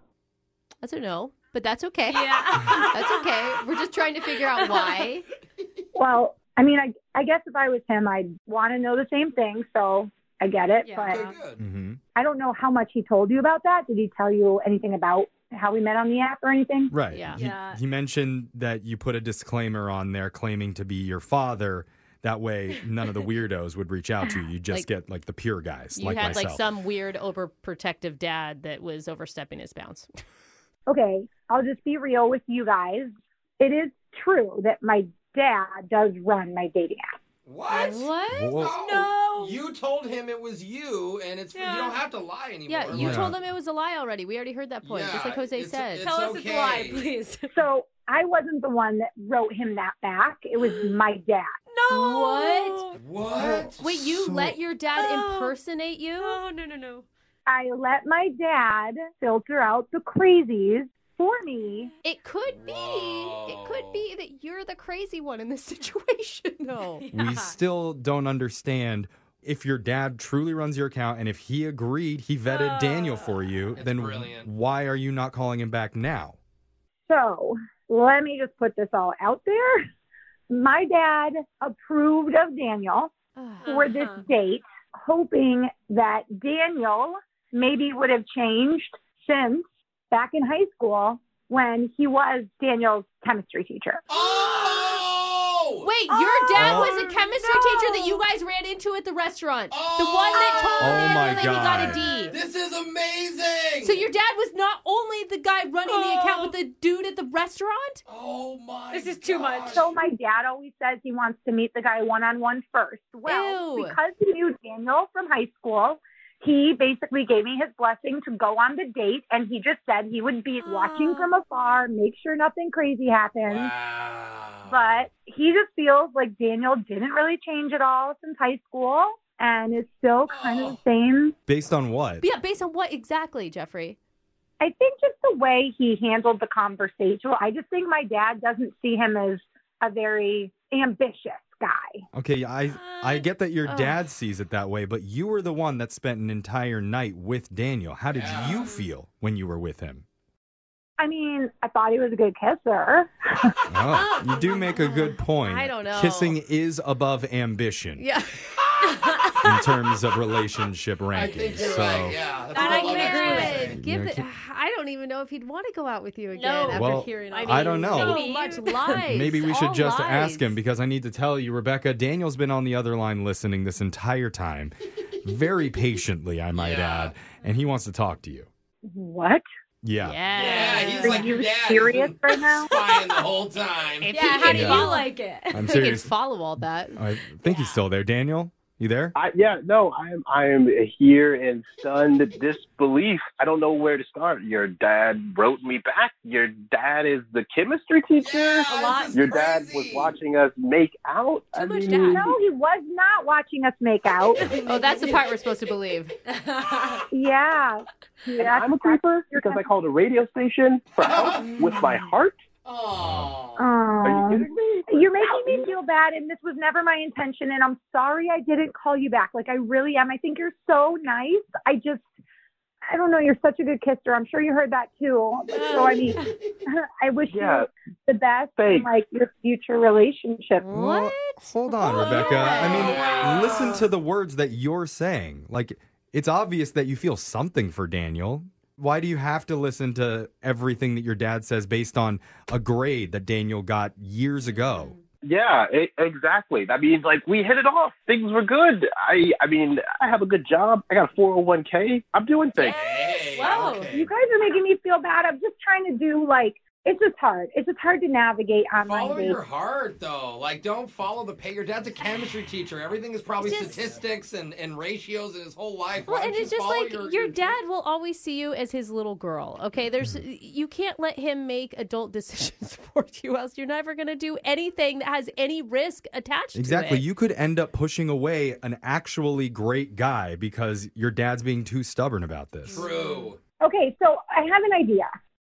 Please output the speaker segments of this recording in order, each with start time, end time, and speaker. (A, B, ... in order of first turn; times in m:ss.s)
0:00.8-0:05.2 A
0:02.1-0:03.5 B
0:04.3-0:05.1 B
0:05.9-0:11.3 C
0:10.8-0:11.3 B
0:11.1-0:11.6 D
0:11.6-0:12.0 E
0:12.1-0:16.9 C
0:16.9-0:26.6 E
0:17.1-0:17.4 A
0:17.3-0:17.8 B
0:26.0-0:30.1 A
0:30.9-0:37.0 C
0:37.4-0:43.3 D
0:37.7-0:38.7 A
0:38.3-0:38.8 E
0:38.8-0:39.6 B
0:41.5-0:42.0 B
0:42.7-0:46.1 A
0:42.9-0:43.4 E
0:44.8-0:47.0 D
0:46.0-0:47.5 B
0:47.5-0:51.5 C
0:50.6-0:51.0 B
0:51.7-0:53.0 B
0:51.9-0:52.8 A
0:53.0-0:53.8 D
0:53.4-0:54.6 E
0:53.8-0:56.4 A
0:54.9-0:55.6 B
0:56.2-0:57.0 B
0:57.5-1:01.9 C
1:02.0-1:07.0 A
1:02.5-1:04.0 D
1:06.9-1:07.5 B
1:07.1-1:16.4 E
1:12.4-1:13.6 B
1:13.7-1:14.5 D
1:17.1-1:19.8 C
1:20.5-1:23.1 C
1:23.4-1:23.7 A
1:23.6-1:24.2 B
1:23.6-1:34.0 C
1:34.1-1:35.9 D
1:34.4-1:34.9 B
1:35.8-1:42.4 A
1:36.1-1:36.8 C
1:36.6-1:36.9 E
1:36.7-1:38.2 B
1:39.7-1:44.1 D
1:40.8-1:42.0 E
1:42.0-1:42.3 B
1:43.8-1:48.0 A
1:45.8-1:46.5 B
1:48.0-1:49.9 D
1:48.9-1:49.9 B
1:49.7-2:03.7 C
1:53.3-1:54.0 A
2:00.6-2:01.4 B
2:03.5-2:05.1 D
2:04.7-2:11.3 C
2:10.2-2:10.8 D
2:11.5-2:12.2 E
2:12.2-2:14.0 A
2:14.6-2:22.0 C
2:22.1-2:30.0 E
2:22.7-2:23.3 B
2:23.6-2:23.9 A
2:28.1-2:28.7 D
2:28.6-2:28.9 B
2:31.0-2:33.5 C
2:33.7-2:38.0 E
2:33.9-2:34.8 B
2:34.7-2:36.4 A
2:38.0-2:38.3 A
2:38.6-2:38.8 D
2:38.9-2:39.6 B
2:39.4-2:42.2 E
2:41.1-2:43.8 D
2:42.5-2:43.7 B
2:42.5-2:50.5 A
2:43.5-2:44.2 E
2:46.3-2:49.2 B
2:46.7-2:48.2 E
2:48.9-2:58.5 E
2:56.5-2:57.1 D
2:58.8-2:59.4 C
2:59.8-3:00.2 E
3:00.0-3:01.3 A
3:00.3-3:04.2 D
3:00.5-3:02.7 C
3:04.0-3:05.1 A
3:04.1-3:05.6 B
3:04.5-3:06.1 E
3:05.6-3:07.0 A
3:07.0-3:09.1 E
3:07.4-3:07.8 B
3:09.1-3:22.3 F
3:18.2-3:20.2 D
3:18.7-3:19.2 B
3:21.5-3:22.2 B
3:22.0-3:24.4 C
3:24.3-3:25.2 B
3:24.6-3:26.1 A
3:26.3-3:27.1 B
3:27.1-3:29.6 C
3:28.4-3:32.4 F
3:31.0-3:31.7 D
3:32.6-3:33.7 D
3:33.0-3:33.3 E
3:33.6-3:42.0 C
3:34.0-3:35.7 F
3:42.9-3:50.6 C
3:45.5-3:46.3 B
3:47.3-3:47.7 F
3:48.6-3:48.9 F
3:50.6-3:53.2 A
3:50.7-4:04.9 E
3:52.4-3:53.9 D
4:04.5-4:05.0 B
4:05.2-4:12.8 F
4:12.6-4:14.1 D
4:12.6-4:13.9 B
4:13.4-4:19.4 C
4:18.8-4:27.6 D
4:23.4-4:23.8 A
4:26.1-4:37.0 A
4:36.5-4:42.9 E
4:42.7-4:43.3 B
4:42.7-4:43.4 D
4:43.6-4:45.1 C